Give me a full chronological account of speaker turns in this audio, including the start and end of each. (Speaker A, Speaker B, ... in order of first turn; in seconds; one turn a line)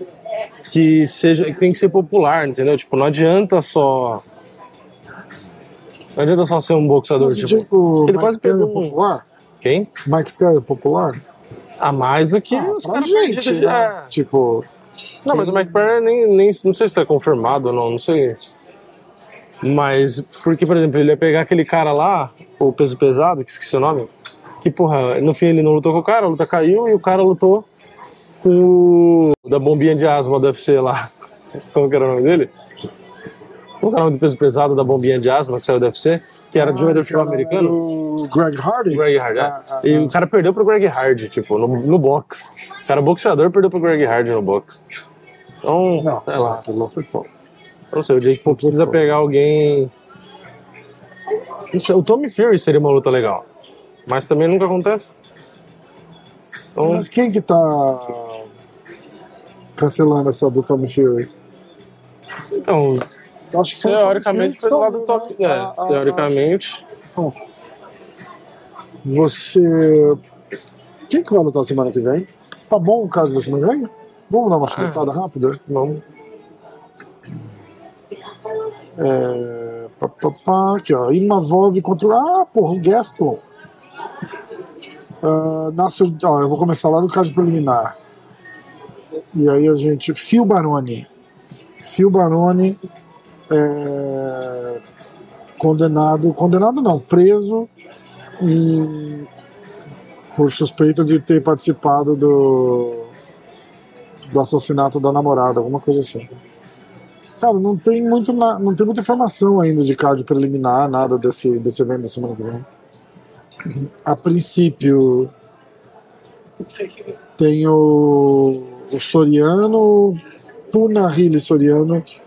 Speaker A: 0.6-4.2
Speaker A: 6.2-9.0
Speaker B: 7.2-9.2
Speaker A: 9.6-9.9
Speaker B: 10.0-11.2
Speaker A: 11.8-14.1
Speaker B: 12.5-14.7
Speaker A: 15.2-18.4
Speaker B: 15.3-15.9
Speaker A: 19.6-24.1
Speaker A: 24.6-27.7
Speaker A: 28.4-32.5
Speaker A: 33.8-37.8
Speaker B: 36.5-40.2
Speaker A: 38.9-44.8
Speaker A: 45.6-46.6
Speaker B: 46.0-47.3
Speaker A: 47.9-49.9
Speaker B: 48.5-49.0
Speaker A: 51.7-53.5
Speaker A: 54.1-55.1
Speaker A: 56.8-57.0
Speaker B: 56.8-58.5
Speaker B: 59.8-61.3
Speaker A: 62.6-63.0
Speaker B: 63.5-66.3
Speaker A: 63.8-66.8
Speaker B: 69.0-70.2
Speaker B: 71.1-75.6
Speaker A: 74.7-75.1
Speaker A: 75.7-76.0
Speaker B: 79.0-83.4
Speaker B: 85.2-88.0
Speaker B: 89.3-91.1
Speaker B: 91.8-92.8
Speaker B: 93.5-94.8
Speaker B: 95.6-97.7
Speaker B: 98.4-99.3
Speaker B: 100.3-103.1
Speaker B: 104.3-106.3
Speaker B: 107.4-112.7
Speaker B: 113.6-115.3
Speaker B: 117.4-120.2
Speaker B: 120.7-122.0